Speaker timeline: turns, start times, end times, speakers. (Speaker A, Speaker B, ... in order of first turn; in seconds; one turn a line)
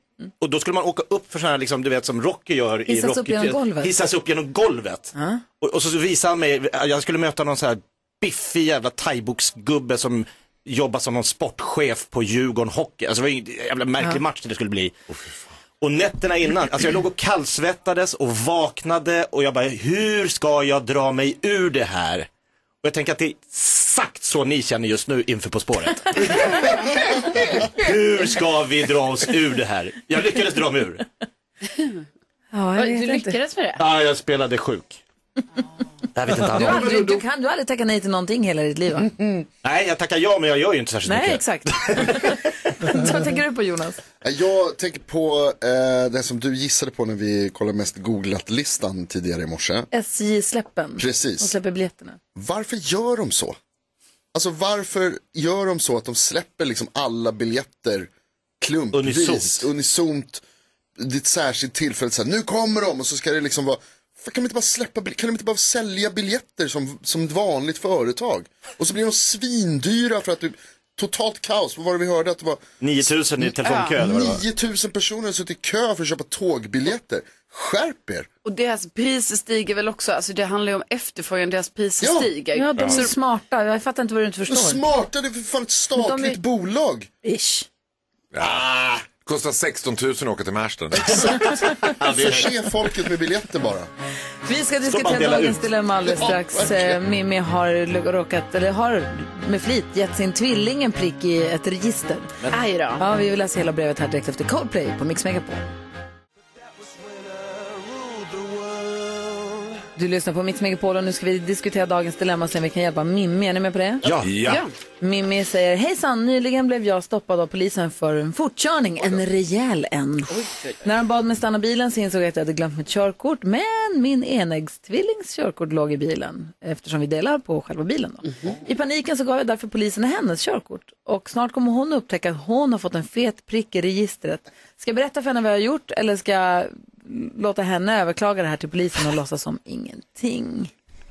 Speaker A: 0.4-14.9
Speaker B: 2.9-3.9
Speaker B: 5.1-5.4
Speaker A: 15.8-22.3
Speaker A: 22.8-31.1
Speaker B: 32.5-33.4
Speaker C: 32.8-33.8
Speaker A: 33.8-35.0
Speaker A: 36.1-37.2
Speaker B: 36.5-39.1
Speaker A: 39.6-42.4
Speaker B: 41.0-44.0
Speaker D: 44.2-49.9
Speaker B: 49.9-52.2
Speaker D: 51.0-51.5
Speaker D: 52.3-53.6
Speaker D: 54.3-58.1
Speaker D: 58.6-60.4
Speaker A: 58.9-59.7
Speaker D: 61.0-72.6
Speaker A: 72.8-74.4
Speaker D: 73.4-78.3
Speaker C: 73.6-73.9
Speaker C: 78.4-83.1
Speaker D: 82.0-82.3
Speaker B: 82.5-84.8
Speaker E: 82.8-83.0
Speaker D: 84.5-87.1
Speaker B: 86.0-86.4
Speaker B: 87.2-87.7
Speaker E: 88.3-91.6
Speaker D: 91.0-93.9
Speaker B: 91.5-91.7
Speaker A: 92.0-92.5
Speaker B: 94.5-102.3
Speaker A: 94.8-95.7
Speaker D: 96.0-97.0
Speaker C: 102.5-103.0
Speaker B: 103.0-105.7
Speaker B: 110.0-114.0
Speaker A: 114.0-114.3
Speaker E: 114.2-114.6
Speaker C: 114.5-114.7
Speaker B: 115.0-120.3
Speaker B: 120.8-140.7